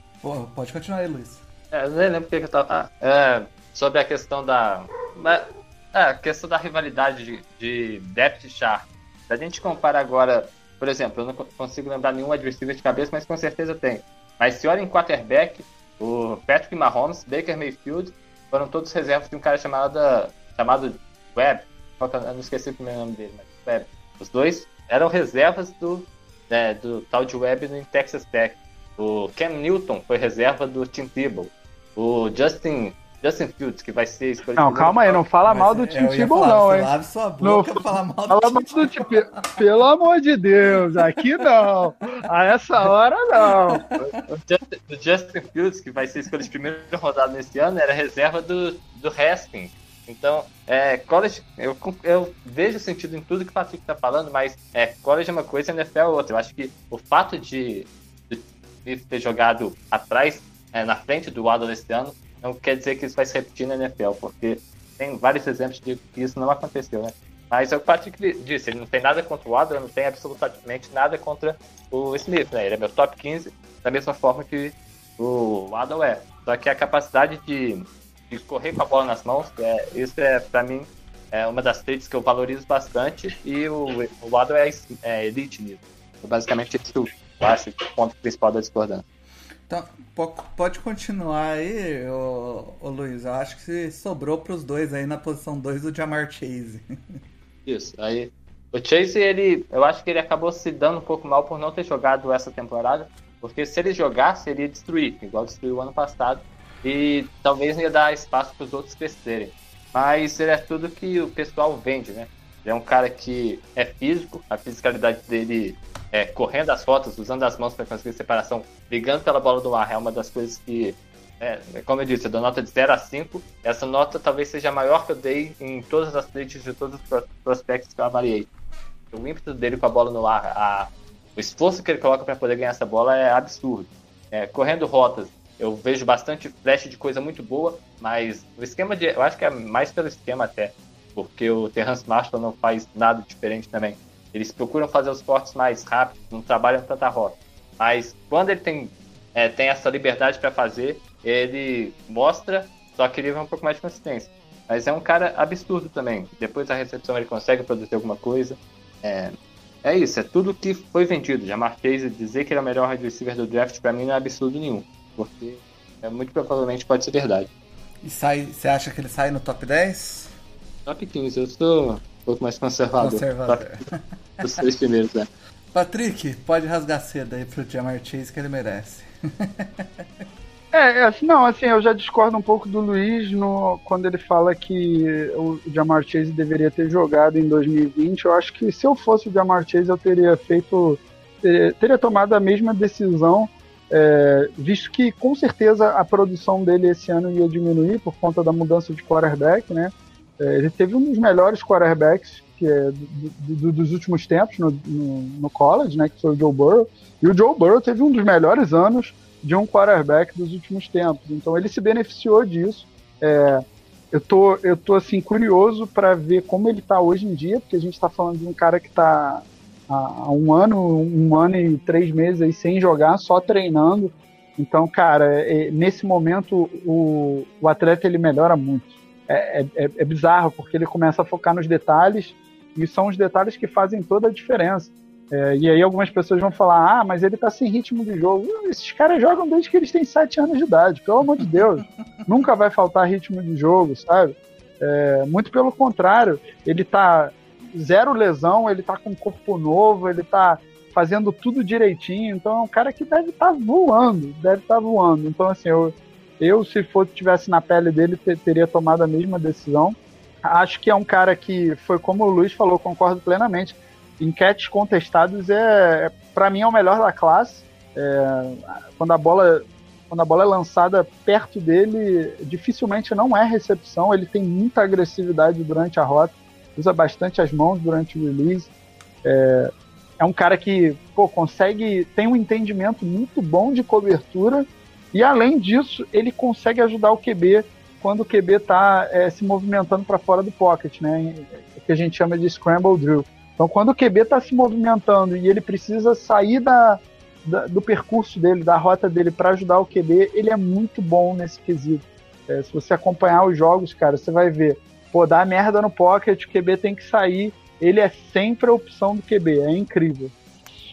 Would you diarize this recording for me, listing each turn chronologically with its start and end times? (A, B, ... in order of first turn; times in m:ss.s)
0:00.2-0:01.4 A
0:01.7-0:35.2 B
0:34.6-0:36.9 C
0:35.4-0:39.1 A
0:37.4-0:43.9 C
0:43.8-0:44.2 A
0:44.4-1:29.0 B
1:29.7-1:37.2 A
1:37.6-2:08.5 B
2:09.1-2:47.5 B
2:48.0-2:50.3 A
2:50.8-2:53.6 B
2:53.0-2:54.6 A
2:54.4-2:55.3 B
2:55.7-3:00.2 A
3:00.7-4:38.7 C
4:01.4-4:02.3 A
4:39.2-5:10.3 C